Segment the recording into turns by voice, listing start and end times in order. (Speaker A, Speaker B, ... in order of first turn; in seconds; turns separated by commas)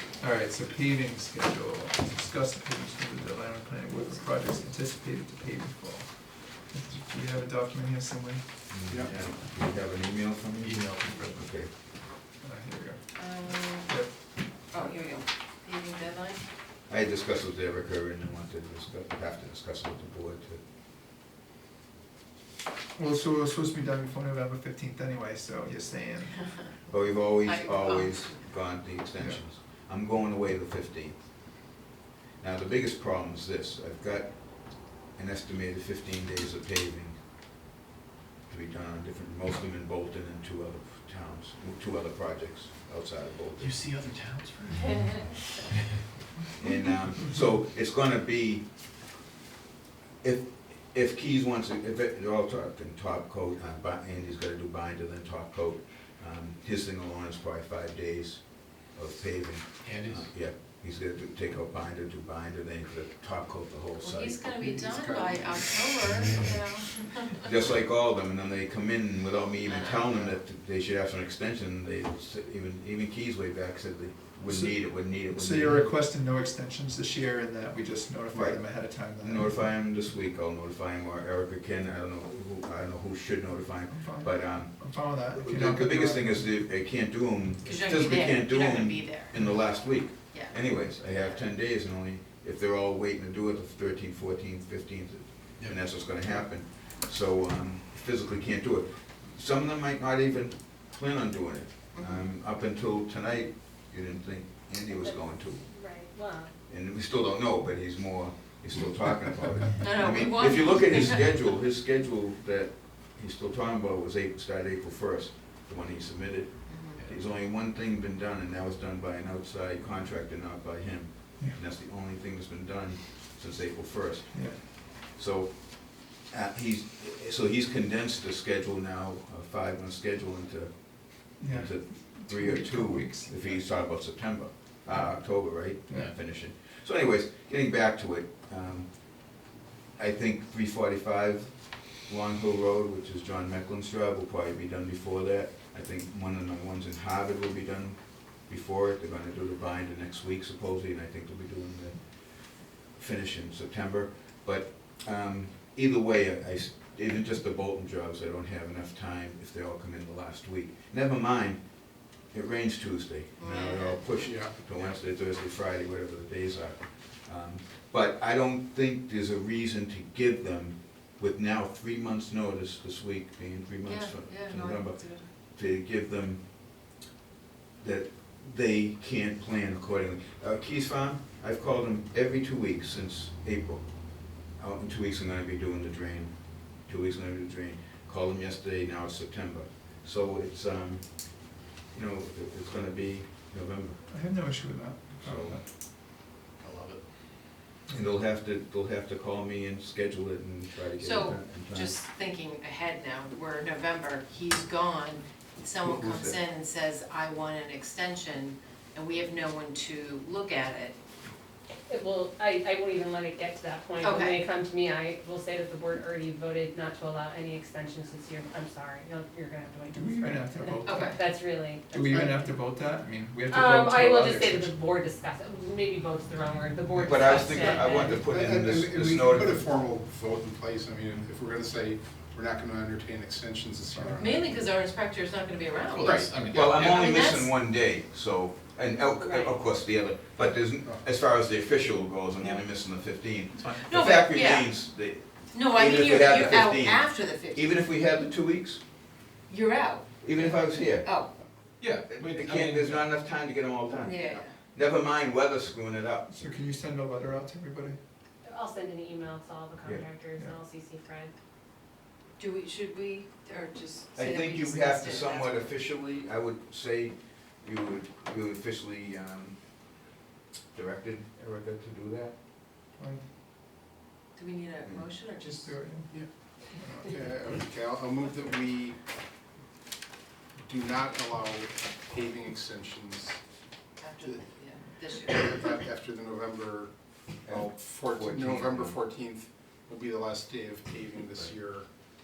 Speaker A: 0.2-8.7, Speaker B: 8.7-11.7, Speaker C: 8.9-9.1, Speaker D: 10.6-11.5, Speaker A: 12.3-14.3, Speaker E: 13.2-16.4, Speaker B: 16.9-20.6, Speaker A: 22.9-26.5, Speaker B: 26.9-31.7, Speaker E: 27.4-28.5, Speaker B: 32.4-37.2, Speaker B: 38.5-43.8, Speaker D: 43.6-45.9, Speaker B: 46.6-48.7, Speaker B: 50.2-64.4, Speaker D: 59.8-60.4, Speaker E: 64.0-67.5, Speaker C: 64.5-66.5, Speaker B: 67.4-75.9, Speaker E: 69.6-70.2, Speaker A: 74.5-79.7, Speaker B: 78.3-105.7, Speaker A: 83.9-86.6, Speaker E: 87.6-89.3, Speaker E: 90.3-91.4, Speaker E: 101.9-102.2, Speaker F: 104.9-106.5, Speaker B: 106.7-139.3, Speaker E: 109.8-111.3, Speaker E: 116.7-117.0, Speaker A: 124.3-124.6, Speaker A: 131.4-133.7, Speaker A: 134.9-136.1, Speaker B: 140.0-176.4, Speaker E: 163.4-164.2, Speaker C: 164.2-164.5, Speaker E: 173.8-175.3, Speaker B: 177.8-194.0, Speaker A: 194.0-195.7, Speaker D: 196.6-197.0, Speaker A: 197.9-198.2, Speaker B: 197.9-201.9, Speaker E: 201.0-211.0, Speaker B: 205.8-206.4, Speaker F: 211.9-222.4, Speaker E: 214.0-214.4, Speaker A: 219.9-221.2, Speaker E: 220.8-221.2, Speaker A: 221.9-224.8, Speaker F: 223.5-228.3, Speaker A: 226.9-227.9, Speaker B: 227.1-229.6, Speaker C: 228.2-234.6, Speaker E: 234.2-237.5, Speaker D: 235.9-237.2, Speaker B: 236.1-248.8, Speaker E: 243.8-244.7, Speaker E: 245.5-247.7, Speaker E: 249.5-251.3, Speaker B: 250.2-251.2, Speaker D: 251.8-253.1, Speaker B: 252.1-256.3, Speaker E: 254.0-254.5, Speaker A: 256.3-258.0, Speaker F: 258.4-261.3, Speaker E: 262.4-265.6, Speaker B: 264.2-269.6, Speaker B: 270.7-272.4, Speaker A: 273.0-273.2, Speaker E: 274.4-275.8, Speaker A: 275.4-276.2, Speaker A: 276.7-277.1, Speaker C: 277.0-279.0, Speaker C: 280.6-283.4, Speaker E: 284.0-285.7, Speaker C: 284.2-284.5, Speaker C: 285.0-286.9, Speaker B: 287.5-289.0, Speaker C: 287.5-291.9